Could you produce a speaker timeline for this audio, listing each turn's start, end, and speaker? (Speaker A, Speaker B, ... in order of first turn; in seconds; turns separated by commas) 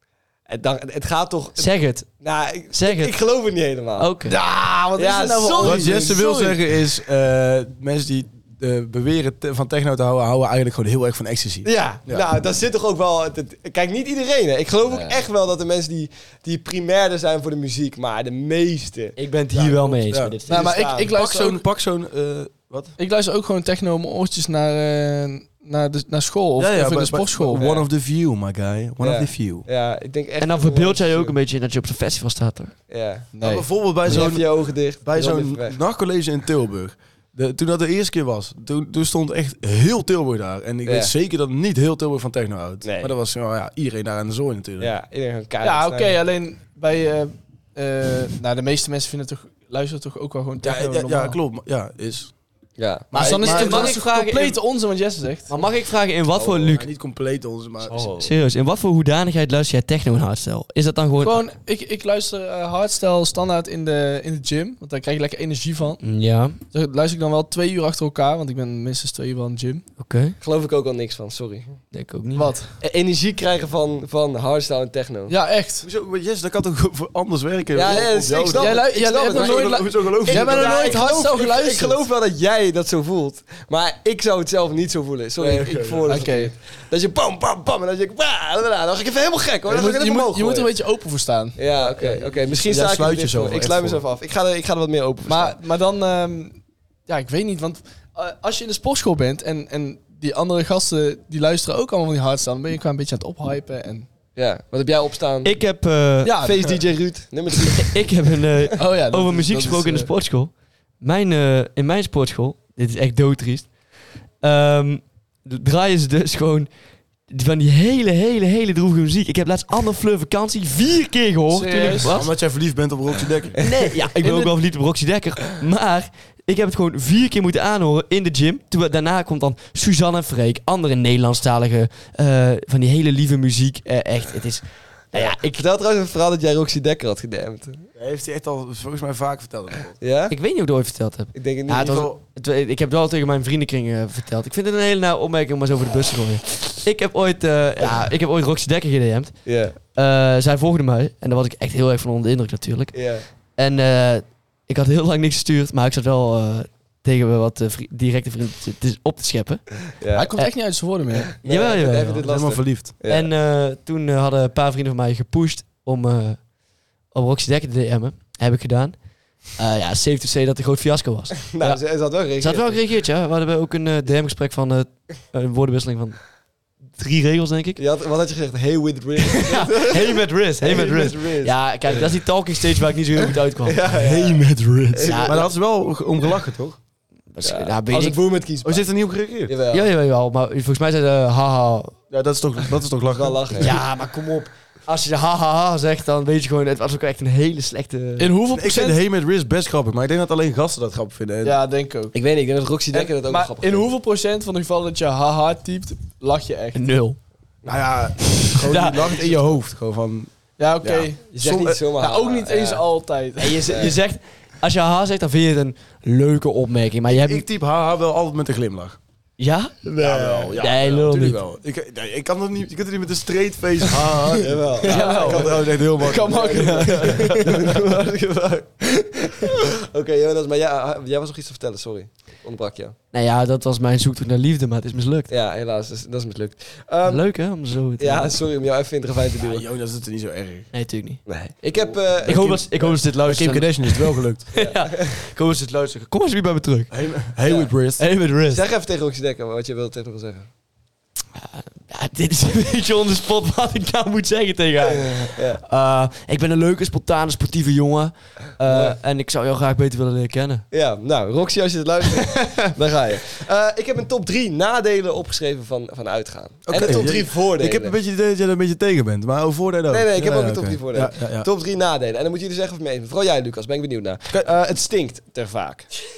Speaker A: 0.5-4.1, Speaker B: 1.6-2.1, Speaker B: 2.7-3.2, Speaker B: 4.0-4.4, Speaker C: 4.3-6.6, Speaker A: 5.0-6.4, Speaker D: 5.6-12.3, Speaker A: 11.6-19.2, Speaker B: 19.2-21.0, Speaker D: 19.5-23.0, Speaker C: 20.5-21.6, Speaker A: 20.5-21.1, Speaker C: 23.0-27.7, Speaker D: 26.6-29.7, Speaker A: 27.6-27.9, Speaker A: 29.0-31.4, Speaker B: 30.4-32.8, Speaker A: 32.9-33.3, Speaker C: 33.4-33.7, Speaker D: 33.4-44.9, Speaker A: 34.0-35.8, Speaker A: 40.9-41.1, Speaker A: 42.8-43.1, Speaker A: 44.8-46.2, Speaker C: 45.6-51.4, Speaker D: 50.6-52.3, Speaker A: 52.8-53.2, Speaker D: 53.1-54.0, Speaker C: 53.1-55.5, Speaker B: 53.3-54.6, Speaker B: 55.5-56.9, Speaker A: 56.3-56.8, Speaker D: 56.7-58.2, Speaker A: 57.9-58.3, Speaker B: 58.1-61.4, Speaker C: 61.2-66.0, Speaker B: 66.0-66.6, Speaker C: 66.7-69.9, Speaker B: 70.0-70.4, Speaker A: 70.4-71.8, Speaker B: 71.9-72.5, Speaker C: 72.3-72.7, Speaker A: 72.8-75.4, Speaker C: 75.3-75.9, Speaker D: 75.8-81.2, Speaker A: 77.7-90.7, Speaker C: 78.5-82.0, Speaker D: 85.4-86.2, Speaker C: 86.0-86.5, Speaker C: 89.7-92.4, Speaker A: 91.6-95.6, Speaker D: 92.4-94.0, Speaker C: 95.3-104.1, Speaker A: 104.4-105.6, Speaker B: 105.4-106.5, Speaker C: 106.2-106.8, Speaker A: 106.4-108.1, Speaker B: 107.7-113.8, Speaker C: 108.8-110.1, Speaker B: 114.4-116.7, Speaker B: 117.3-122.3, Speaker C: 121.5-122.2, Speaker D: 122.1-123.7, Speaker B: 123.6-135.6, Speaker C: 124.2-124.5, Speaker A: 135.1-137.9, Speaker D: 138.0-140.0, Speaker A: 140.0-140.3, Speaker B: 140.3-160.5, Speaker A: 141.3-142.1, Speaker A: 149.5-149.8, Speaker A: 152.9-153.2, Speaker A: 160.0-160.3, Speaker C: 160.1-161.3, Speaker B: 161.4-162.3, Speaker A: 161.4-163.3, Speaker D: 162.2-162.9, Speaker B: 163.1-166.5, Speaker B: 167.1-176.3, Speaker A: 171.5-172.8, Speaker B: 176.9-177.8, Speaker A: 177.8-182.1, Speaker B: 179.2-183.8, Speaker A: 183.6-185.5, Speaker D: 183.9-186.8, Speaker B: 185.1-185.4, Speaker B: 187.3-188.2, Speaker A: 187.4-188.9, Speaker D: 188.6-189.5, Speaker A: 189.4-189.9, Speaker B: 189.7-191.9, Speaker D: 192.1-193.8, Speaker A: 193.1-193.7, Speaker B: 193.6-198.3, Speaker C: 198.2-199.0, Speaker D: 198.5-201.6, Speaker C: 201.4-202.2, Speaker A: 202.1-203.9, Speaker C: 202.9-206.8, Speaker B: 206.8-207.2, Speaker D: 207.7-211.8, Speaker B: 208.6-209.1, Speaker C: 210.6-211.3, Speaker A: 211.3-212.9, Speaker C: 212.0-213.9, Speaker B: 213.4-217.4, Speaker A: 213.7-213.9, Speaker D: 217.1-219.0, Speaker B: 219.4-219.8, Speaker A: 219.8-220.7, Speaker D: 220.0-227.5, Speaker B: 220.6-221.4, Speaker A: 224.4-233.0, Speaker C: 224.8-227.5, Speaker B: 233.1-235.3, Speaker A: 235.3-239.7, Speaker B: 237.1-238.4, Speaker D: 239.4-240.7, Speaker B: 240.7-241.3, Speaker A: 241.3-242.9, Speaker D: 241.8-244.5, Speaker B: 242.2-247.0, Speaker A: 244.5-245.1, Speaker D: 246.9-248.0, Speaker A: 247.4-247.7, Speaker B: 248.0-248.6, Speaker A: 248.5-250.5, Speaker B: 251.4-260.6, Speaker A: 254.9-255.6, Speaker A: 258.6-259.0, Speaker A: 260.7-268.0, Speaker D: 266.7-271.5, Speaker A: 269.9-275.9